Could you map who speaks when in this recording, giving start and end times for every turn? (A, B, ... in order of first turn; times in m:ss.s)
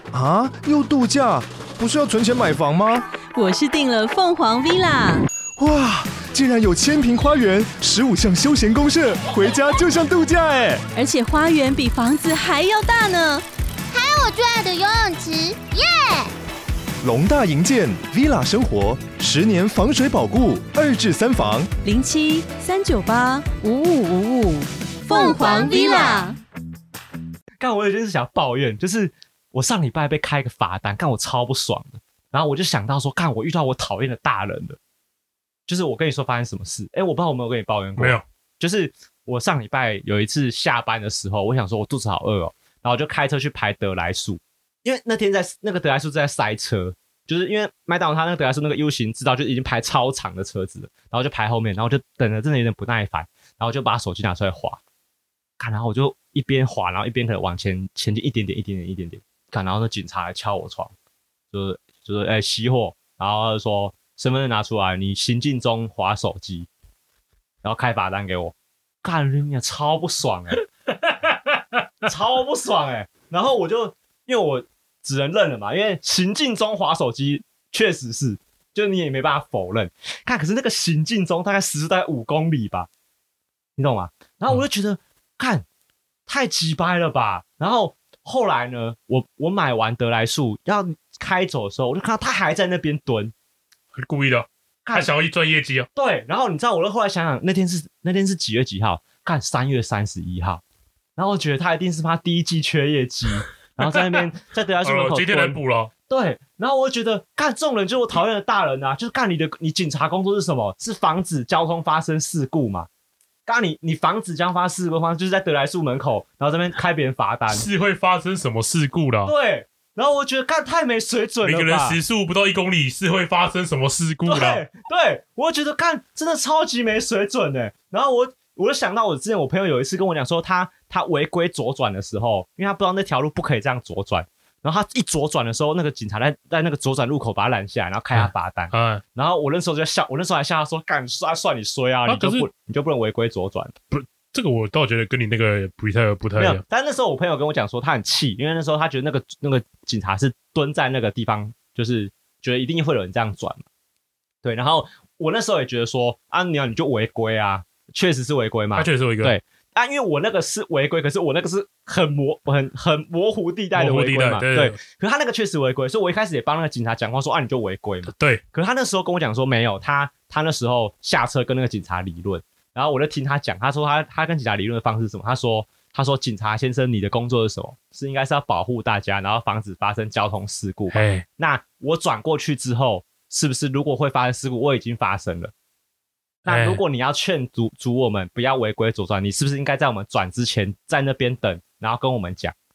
0:00.1-0:03.1 A
0:03.3-0:05.3 B
0:05.6-0:10.8 A
0:11.0-0:13.4 B
0:13.9-0:16.3 C
0:17.0-0:21.7 A
0:21.8-0:26.4 B
0:25.1-0:26.3 C
0:27.6-0:34.8 D
0:35.7-0:54.8 D
0:38.0-0:38.2 E
0:55.6-1:00.9 D
1:01.5-1:06.7 D
1:07.6-1:10.6 D
1:12.0-1:22.9 D
1:23.8-1:25.6 D
1:26.3-1:33.3 D
1:33.9-1:35.9 E
1:35.9-1:40.6 D
1:41.2-1:52.9 D
1:44.8-1:45.9 E
1:53.4-1:57.6 D
1:57.5-1:59.3 E
1:59.2-2:02.0 D
2:01.4-2:04.6 E
2:04.2-2:23.7 D
2:18.1-2:19.0 E
2:22.1-2:22.4 E
2:23.9-2:26.6 E
2:26.4-2:33.6 D
2:34.4-3:05.5 D
2:38.8-2:39.3 E
2:43.7-2:44.8 E
2:48.1-2:48.4 E
3:00.9-3:01.2 E
3:06.4-3:12.5 D
3:06.5-3:06.8 E